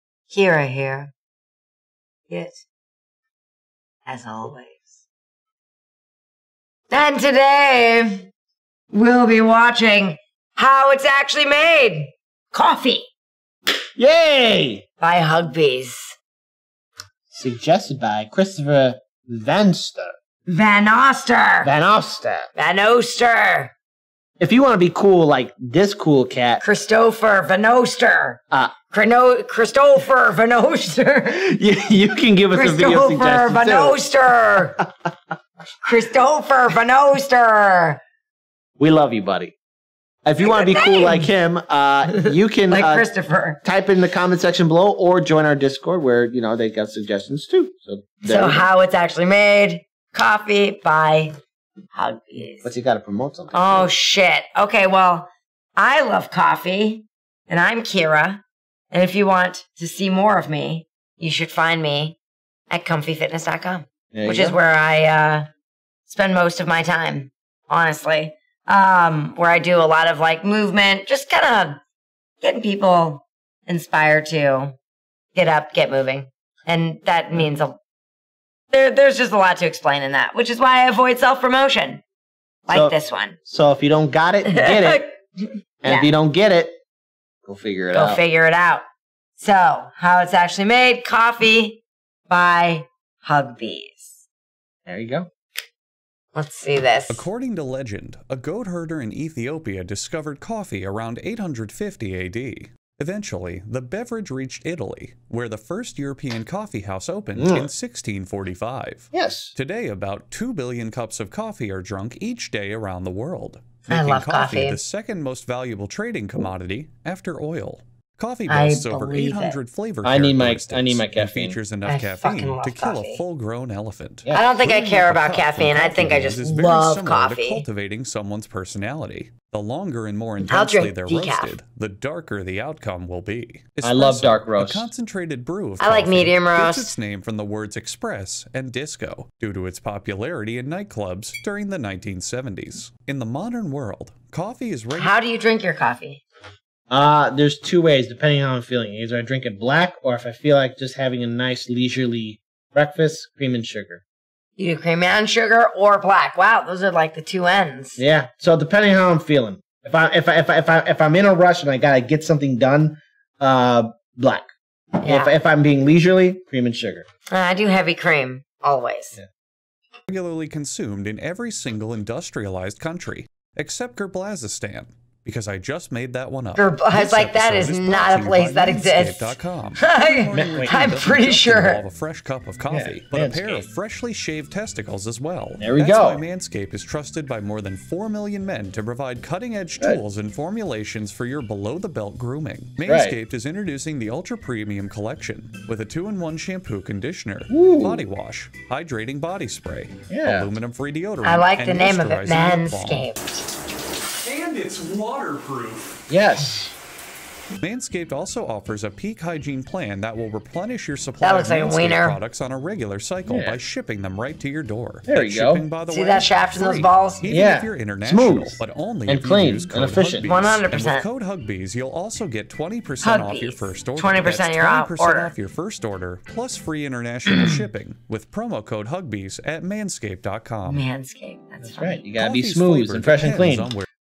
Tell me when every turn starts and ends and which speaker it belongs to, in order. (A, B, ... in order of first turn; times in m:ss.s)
0:00.3-0:01.1 A
0:02.3-0:02.6 A
0:04.1-0:05.0 A
0:06.9-0:08.3 A
0:08.9-0:13.1 A
0:14.0-0:14.8 B
0:15.0-0:16.2 A
0:17.3-0:20.2 B
0:20.5-0:21.7 A
0:21.6-0:22.5 B
0:22.6-0:23.7 A
0:24.4-0:26.6 B
0:26.6-0:31.5 A
0:31.3-0:34.0 B
0:32.5-0:34.8 A
0:35.8-0:38.0 A
0:38.8-0:39.6 B
0:40.2-0:43.1 B
0:40.4-0:41.3 A
0:42.1-0:43.6 A
0:43.6-0:48.7 B
0:48.2-0:51.3 A
0:51.9-0:52.7 A
0:52.6-0:53.9 B
0:53.5-1:02.2 A
1:02.7-1:05.5 A
1:04.1-1:04.6 B
1:06.1-1:11.8 A
1:12.4-1:14.8 A
1:15.3-1:17.8 A
1:18.7-1:22.0 A
1:22.7-1:23.4 A
1:22.7-1:25.0 B
1:24.5-1:26.1 A
1:25.8-1:26.8 B
1:27.4-1:28.2 B
1:27.9-1:28.8 A
1:29.4-1:34.2 A
1:34.9-1:35.3 B
1:36.3-1:37.3 A
1:37.1-2:25.2 C
1:47.4-1:47.7 B
1:49.1-1:49.5 B
1:53.9-1:54.8 A
1:58.5-1:59.6 A
2:00.0-2:01.6 B
2:01.9-2:03.2 A
2:04.2-2:04.6 B
2:04.3-2:07.6 A
2:10.4-2:11.6 A
2:13.8-2:14.9 B
2:15.8-2:16.9 A
2:24.9-2:26.2 A
2:26.9-2:34.0 B
2:34.6-2:38.0 A
2:38.0-2:47.0 B
2:45.0-2:45.4 A
2:47.3-2:49.2 A
2:50.1-3:23.0 C
2:56.6-3:01.8 A
3:00.3-3:00.9 B
3:02.7-3:03.7 B
3:05.6-3:06.2 B
3:12.8-3:13.2 B
3:17.5-3:18.0 B
3:20.1-3:20.5 B
3:21.2-3:23.4 A
3:24.2-3:26.0 C
3:26.1-3:26.7 B
3:27.6-3:50.9 C
3:31.2-3:32.2 A
3:33.3-3:33.6 B
3:35.1-3:35.6 B
3:35.9-3:37.3 A
3:37.3-3:40.3 B
3:40.2-3:41.1 A
3:43.0-3:45.3 A
3:47.3-3:47.6 A
3:50.7-3:52.0 A
3:51.6-3:53.8 B
3:52.2-3:53.9 C